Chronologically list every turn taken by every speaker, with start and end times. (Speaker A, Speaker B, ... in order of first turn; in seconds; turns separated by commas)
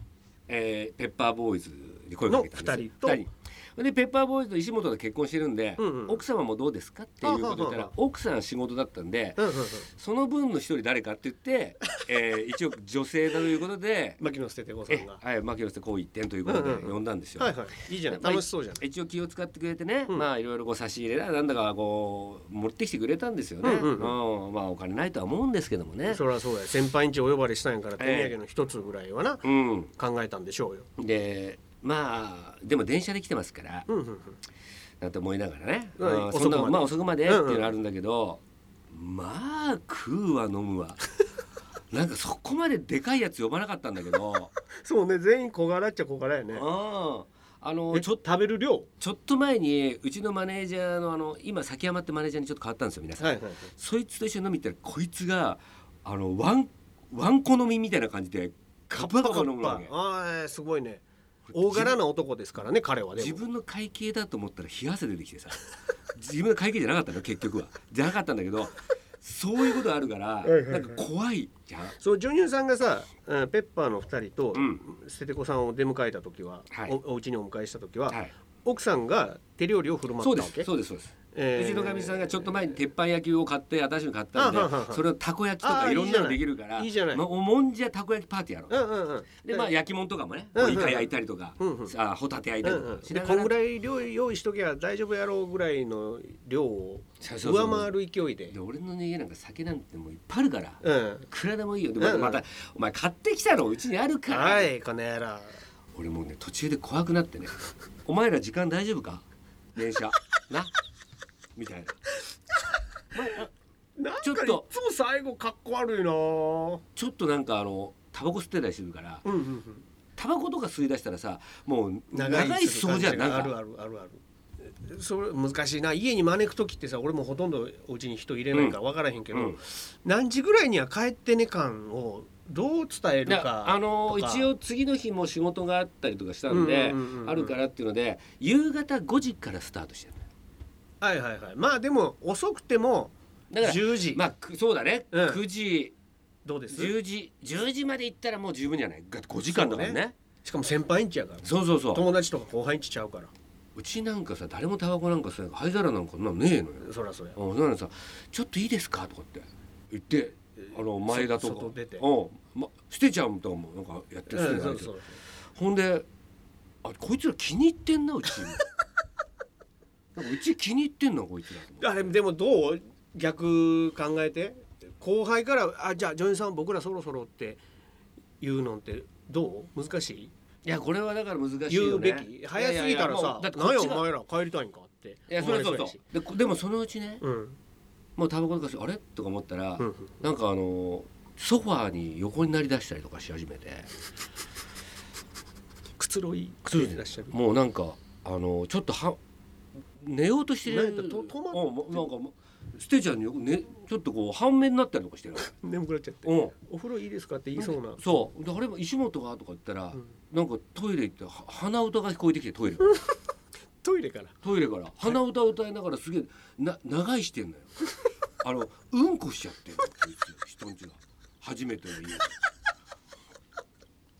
Speaker A: 0.5-14.2, Speaker B: 2.3-3.3, Speaker B: 5.8-6.2, Speaker B: 7.2-7.9, Speaker B: 9.4-9.9, Speaker B: 14.2-15.2, Speaker A: 14.9-17.6, Speaker B: 16.4-18.8, Speaker A: 18.1-26.2, Speaker B: 23.6-24.2, Speaker B: 26.1-29.5, Speaker A: 28.0-28.4, Speaker A: 29.4-29.9, Speaker B: 30.0-30.9, Speaker A: 31.0-33.9, Speaker B: 33.9-34.4, Speaker A: 35.0-41.2, Speaker B: 36.0-37.7, Speaker A: 41.9-44.5, Speaker B: 44.8-46.7, Speaker A: 46.5-48.2, Speaker B: 47.9-48.9, Speaker A: 49.0-59.9, Speaker B: 53.2-53.7, Speaker B: 58.9-63.4, Speaker A: 61.5-62.0, Speaker A: 63.2-72.0, Speaker B: 70.5-71.0, Speaker B: 72.0-80.7, Speaker A: 74.5-74.8, Speaker A: 76.7-77.0, Speaker A: 80.2-88.8, Speaker B: 81.3-82.7, Speaker B: 84.3-85.0, Speaker B: 85.6-87.2, Speaker B: 88.7-89.7, Speaker A: 89.4-93.5, Speaker B: 90.5-91.9, Speaker B: 92.6-98.5, Speaker A: 97.2-97.9, Speaker A: 98.5-104.7, Speaker B: 100.8-101.3, Speaker B: 102.0-102.4, Speaker B: 104.3-105.5, Speaker A: 106.0-107.5, Speaker A: 108.1-110.7, Speaker A: 111.6-112.0, Speaker A: 113.1-113.5, Speaker B: 114.0-116.8, Speaker A: 114.2-114.7, Speaker A: 117.0-119.3, Speaker B: 119.2-119.8, Speaker A: 120.2-123.6, Speaker B: 122.1-134.5, Speaker A: 129.3-129.6, Speaker A: 133.3-140.2, Speaker B: 136.5-137.6, Speaker B: 141.0-144.2, Speaker A: 143.5-145.9, Speaker B: 145.1-145.4, Speaker B: 146.4-147.0, Speaker A: 146.7-150.2, Speaker B: 149.5-153.3, Speaker A: 151.4-152.1, Speaker A: 153.8-164.9, Speaker B: 156.8-157.4, Speaker B: 160.7-162.1, Speaker B: 164.3-165.2, Speaker A: 165.5-166.1, Speaker A: 166.8-168.7, Speaker A: 170.2-172.1, Speaker B: 171.8-177.6, Speaker B: 178.4-180.3, Speaker A: 180.7-184.1, Speaker B: 181.7-186.0, Speaker A: 185.3-187.2, Speaker B: 187.2-187.6, Speaker A: 188.2-193.9, Speaker B: 189.8-190.1, Speaker B: 196.0-197.3, Speaker A: 196.7-199.2, Speaker A: 200.0-205.5, Speaker B: 200.7-202.1, Speaker B: 205.5-208.3, Speaker A: 206.2-206.5, Speaker A: 207.6-213.0, Speaker B: 213.8-214.4, Speaker A: 214.4-217.8, Speaker A: 218.4-222.3